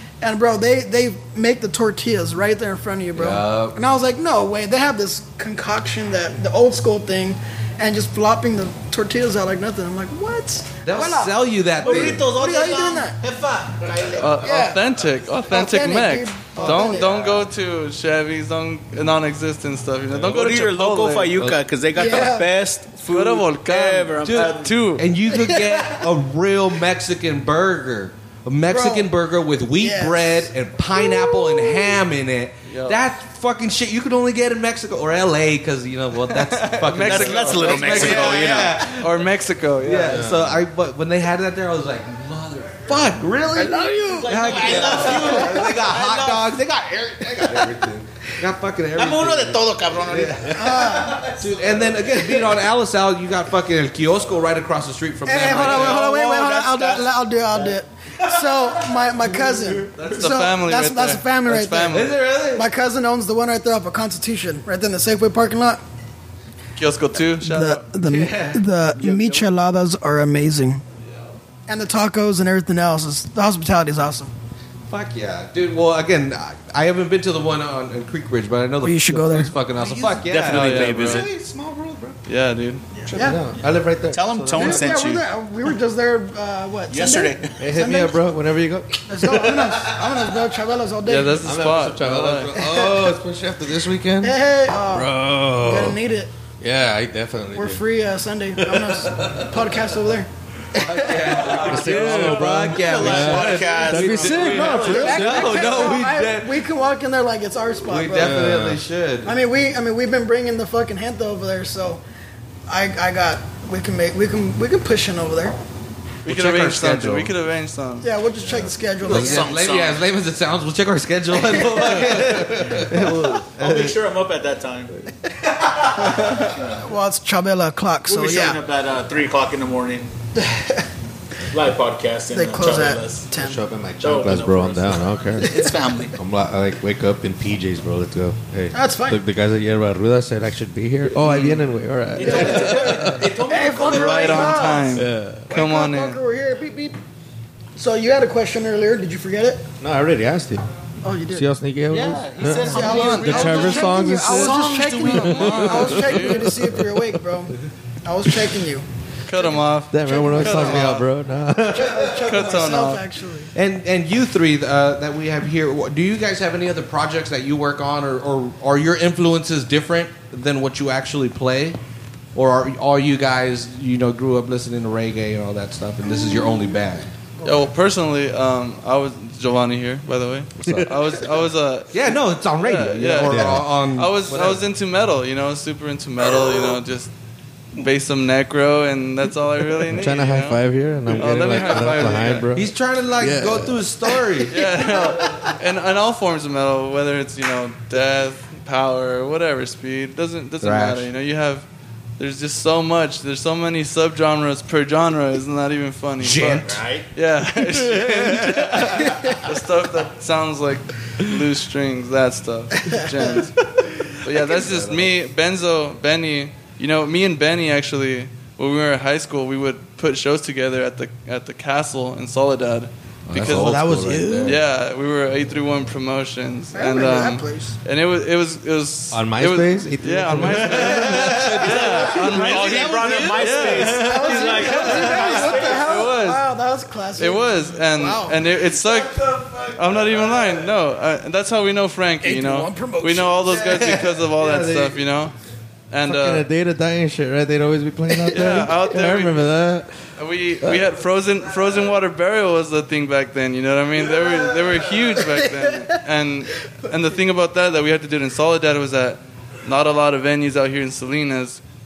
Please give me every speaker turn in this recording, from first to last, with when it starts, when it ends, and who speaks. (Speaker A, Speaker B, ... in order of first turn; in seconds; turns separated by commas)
Speaker A: 0.2-13.2, Speaker B: 3.1-3.8, Speaker B: 10.8-12.3, Speaker C: 11.8-14.4, Speaker D: 14.1-21.4, Speaker A: 14.4-14.8, Speaker A: 15.5-17.1, Speaker B: 16.6-17.1, Speaker C: 17.0-17.4, Speaker C: 20.1-24.8, Speaker A: 21.9-22.5, Speaker D: 23.1-25.1, Speaker B: 24.2-39.2, Speaker A: 25.3-26.0, Speaker A: 28.7-29.1, Speaker A: 29.8-30.5, Speaker A: 31.1-31.8, Speaker D: 32.7-33.0, Speaker D: 36.3-40.4, Speaker C: 37.0-38.8, Speaker B: 39.8-56.0, Speaker E: 40.1-40.6, Speaker A: 43.5-45.6, Speaker C: 43.8-46.5, Speaker C: 49.0-51.2, Speaker A: 50.5-51.3, Speaker A: 55.3-65.8, Speaker C: 55.5-57.8, Speaker D: 59.9-62.2, Speaker B: 61.9-62.7, Speaker D: 66.8-67.9, Speaker A: 67.3-70.8, Speaker B: 68.0-68.6, Speaker A: 71.7-74.3, Speaker B: 74.9-81.4, Speaker A: 78.8-79.5, Speaker D: 80.3-81.3, Speaker C: 80.4-81.3, Speaker E: 81.1-82.2, Speaker D: 82.3-82.8, Speaker A: 83.1-83.4, Speaker E: 83.1-85.0, Speaker C: 83.1-85.2, Speaker A: 84.5-88.2, Speaker C: 86.9-87.6, Speaker E: 87.6-89.6, Speaker A: 89.1-91.5, Speaker D: 91.0-92.5, Speaker E: 91.4-94.4, Speaker A: 92.5-93.2, Speaker A: 94.2-96.3, Speaker E: 94.9-96.0, Speaker E: 96.6-97.8, Speaker A: 97.5-100.3, Speaker E: 98.6-99.5, Speaker B: 100.7-106.6, Speaker E: 101.2-105.6, Speaker D: 101.6-102.7, Speaker C: 101.7-105.1, Speaker A: 104.4-108.5, Speaker B: 107.9-109.4, Speaker E: 108.2-108.8, Speaker A: 109.2-112.0, Speaker A: 112.7-115.6, Speaker B: 116.2-117.3, Speaker D: 116.2-118.1, Speaker A: 118.0-119.5, Speaker E: 118.4-118.7, Speaker C: 119.0-120.0, Speaker B: 119.0-123.9, Speaker A: 121.5-121.8, Speaker E: 122.3-123.9, Speaker C: 123.6-125.0, Speaker A: 126.0-128.6, Speaker C: 126.3-126.8, Speaker C: 128.1-130.1, Speaker A: 130.4-130.8, Speaker C: 131.5-133.3, Speaker A: 132.3-133.6, Speaker E: 133.4-135.6, Speaker C: 134.0-136.2, Speaker A: 135.4-135.7, Speaker E: 136.2-143.2, Speaker A: 138.7-139.2, Speaker D: 141.2-141.6, Speaker C: 142.2-144.9, Speaker A: 142.2-147.0, Speaker D: 143.8-146.2, Speaker E: 144.9-145.5, Speaker A: 147.8-149.7, Speaker E: 149.8-150.7, Speaker A: 151.0-151.5, Speaker E: 151.3-156.8, Speaker C: 151.9-155.7, Speaker A: 152.6-157.5, Speaker D: 155.1-156.6, Speaker A: 158.1-161.0, Speaker D: 159.3-161.1, Speaker E: 159.9-162.1, Speaker A: 161.6-163.5, Speaker D: 162.2-163.0, Speaker B: 163.6-171.8, Speaker B: 172.3-177.1, Speaker A: 177.4-177.7, Speaker D: 177.4-187.1, Speaker E: 180.6-180.9, Speaker B: 181.9-184.6, Speaker E: 183.3-183.6, Speaker D: 187.8-190.6, Speaker E: 189.9-194.2, Speaker D: 191.1-192.5, Speaker B: 191.6-194.8, Speaker D: 194.5-201.7, Speaker B: 200.6-201.1, Speaker D: 202.2-213.6, Speaker B: 206.2-206.8, Speaker C: 206.6-207.1, Speaker E: 207.9-208.8, Speaker A: 209.1-209.4, Speaker A: 212.9-213.3, Speaker D: 214.2-236.4, Speaker B: 214.3-215.1, Speaker B: 223.3-224.6, Speaker E: 223.3-224.6, Speaker A: 226.7-227.8, Speaker E: 229.1-231.6, Speaker B: 230.5-233.7, Speaker C: 231.6-236.0, Speaker A: 234.0-238.4, Speaker D: 237.2-245.3, Speaker B: 238.7-240.4, Speaker A: 242.2-243.6, Speaker B: 243.5-245.0, Speaker D: 245.9-246.5, Speaker E: 246.1-250.0, Speaker D: 248.3-249.5, Speaker D: 250.2-261.6, Speaker A: 254.2-254.6, Speaker A: 255.2-255.8